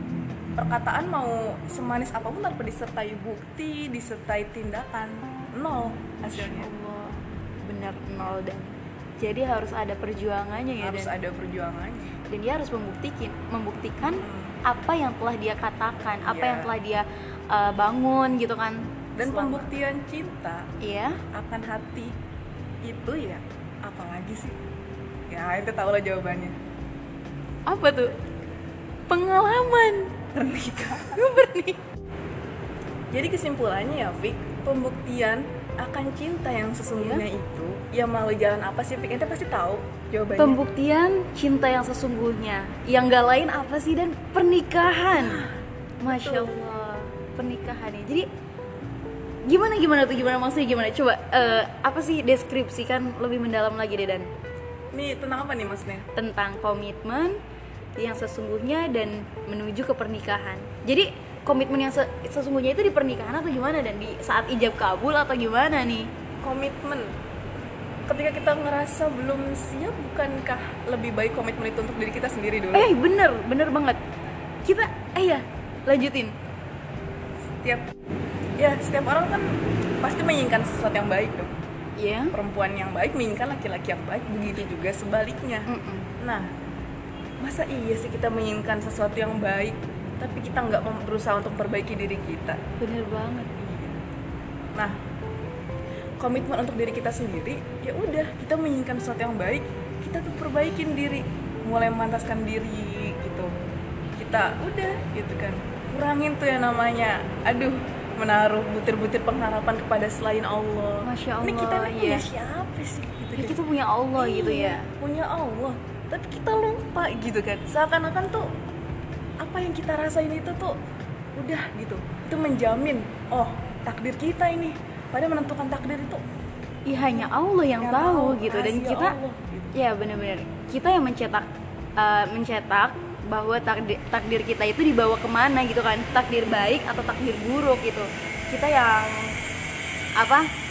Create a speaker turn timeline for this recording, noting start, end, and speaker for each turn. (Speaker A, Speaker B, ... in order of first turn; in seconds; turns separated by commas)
Speaker A: 0.6-6.7, Speaker B: 6.3-11.1, Speaker A: 10.8-12.2, Speaker B: 12.3-19.7, Speaker A: 14.0-14.6, Speaker A: 16.2-16.8, Speaker A: 19.1-20.7, Speaker B: 20.8-21.2, Speaker A: 21.3-22.1, Speaker A: 22.8-24.6, Speaker A: 25.3-26.6, Speaker B: 27.7-28.1, Speaker B: 29.1-30.2, Speaker A: 30.3-31.2, Speaker B: 31.0-31.8, Speaker A: 33.1-40.6, Speaker B: 36.9-37.2, Speaker B: 40.4-45.4, Speaker A: 45.1-46.6, Speaker B: 46.0-48.3, Speaker B: 49.5-54.3, Speaker A: 54.9-56.1, Speaker B: 56.1-57.4, Speaker B: 58.0-66.1, Speaker A: 66.4-67.1, Speaker A: 68.1-72.9, Speaker B: 72.7-74.0, Speaker B: 74.6-76.3, Speaker A: 77.6-77.9, Speaker A: 78.6-81.5, Speaker B: 82.0-82.3, Speaker A: 82.3-86.5, Speaker B: 85.7-86.1, Speaker A: 87.4-92.6, Speaker B: 92.8-93.5, Speaker A: 93.6-94.0, Speaker A: 96.2-103.5, Speaker A: 104.2-113.6, Speaker B: 111.0-112.3, Speaker B: 113.4-114.9, Speaker A: 114.2-118.5, Speaker A: 119.4-120.8, Speaker A: 121.4-126.2, Speaker B: 126.8-129.2, Speaker A: 127.0-129.7, Speaker B: 129.7-139.4, Speaker B: 140.2-140.5